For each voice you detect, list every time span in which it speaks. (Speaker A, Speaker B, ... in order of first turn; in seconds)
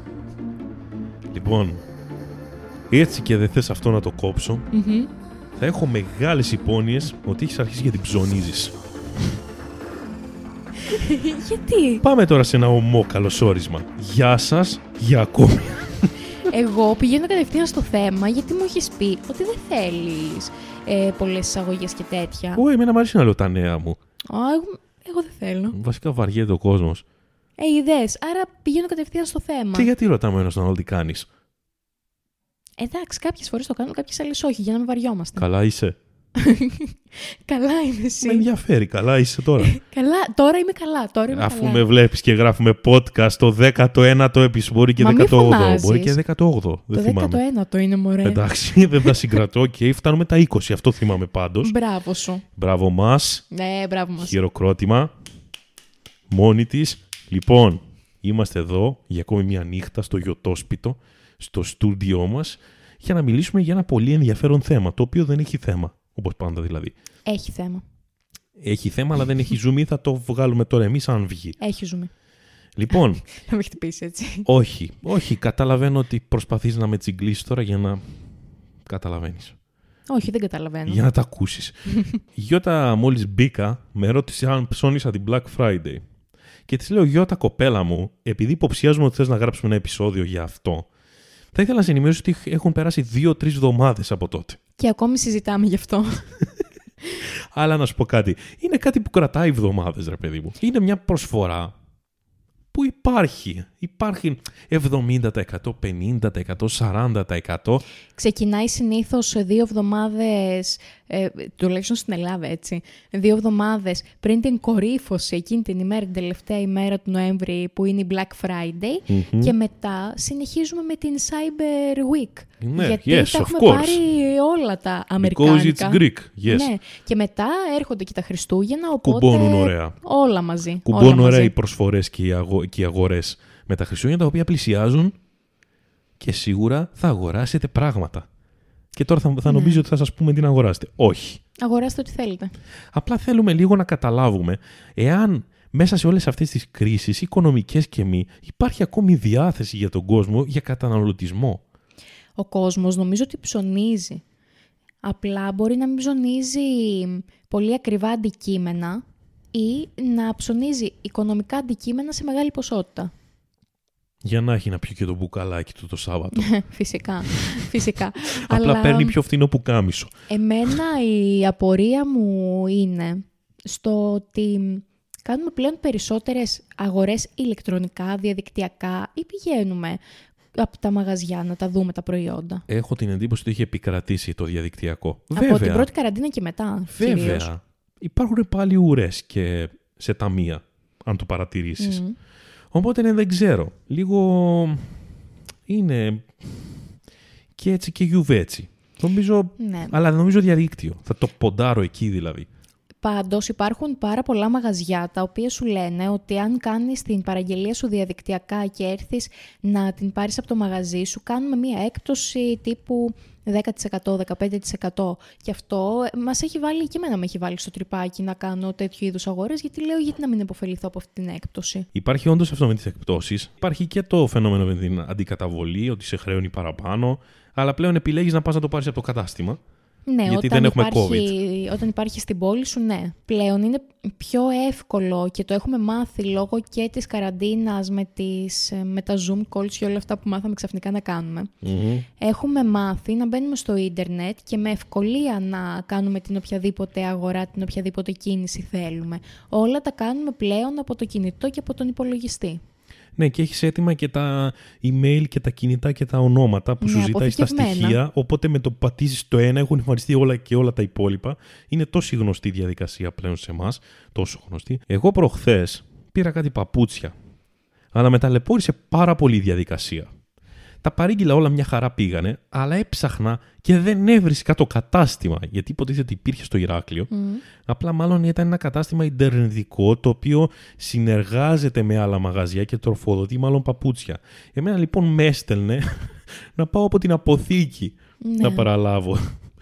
Speaker A: 1.3-1.8, 2.9-4.7, 5.6-8.8, 12.0-16.1, 22.6-24.0, 25.7-27.1, 29.7-31.3, 35.4-36.0, 38.2-39.8, 41.3-47.4, 48.2-51.7, 52.5-53.5, 54.2-55.1, 56.3-67.0, 68.6-71.6, 72.8-73.3, 74.5-78.0, 78.9-79.6, 80.9-86.0, 86.7-90.9, 91.5-94.6, 97.5-101.7, 102.7-107.8, 119.1-119.5, 122.6-124.0, 125.2-126.7, 129.0-130.0, 130.9-135.2, 136.2-138.3, 138.9-141.4, 142.9-151.6, 164.2-166.5, 168.3-170.1, 182.7-185.9, 186.9-192.0, 192.7-194.9, 195.7-196.7, 197.6-202.5, 221.9-229.6, 230.3-231.3, 241.6-242.1, 253.2-267.1, 267.9-270.1, 270.8-277.1, 277.6-289.4
Speaker B: 4.7-5.1, 10.9-12.0, 16.4-22.6, 24.3-25.8, 27.6-29.9, 32.8-35.5, 36.4-38.5, 39.6-41.8, 45.0-46.2, 46.9-48.4, 49.0-49.3, 51.6-52.4, 53.5-54.4, 67.3-67.8, 71.6-72.1, 73.3-74.5, 80.1-81.0, 94.8-96.2, 108.2-131.5, 139.5-139.8, 141.6-142.5, 152.4-154.2, 155.0-163.1, 166.4-169.2, 170.3-180.0, 180.6-182.6, 185.3-187.5, 191.8-192.2, 199.6-199.9, 203.0-221.9, 230.1-241.5, 242.2-252.6, 256.8-258.0, 277.1-277.4, 288.2-288.7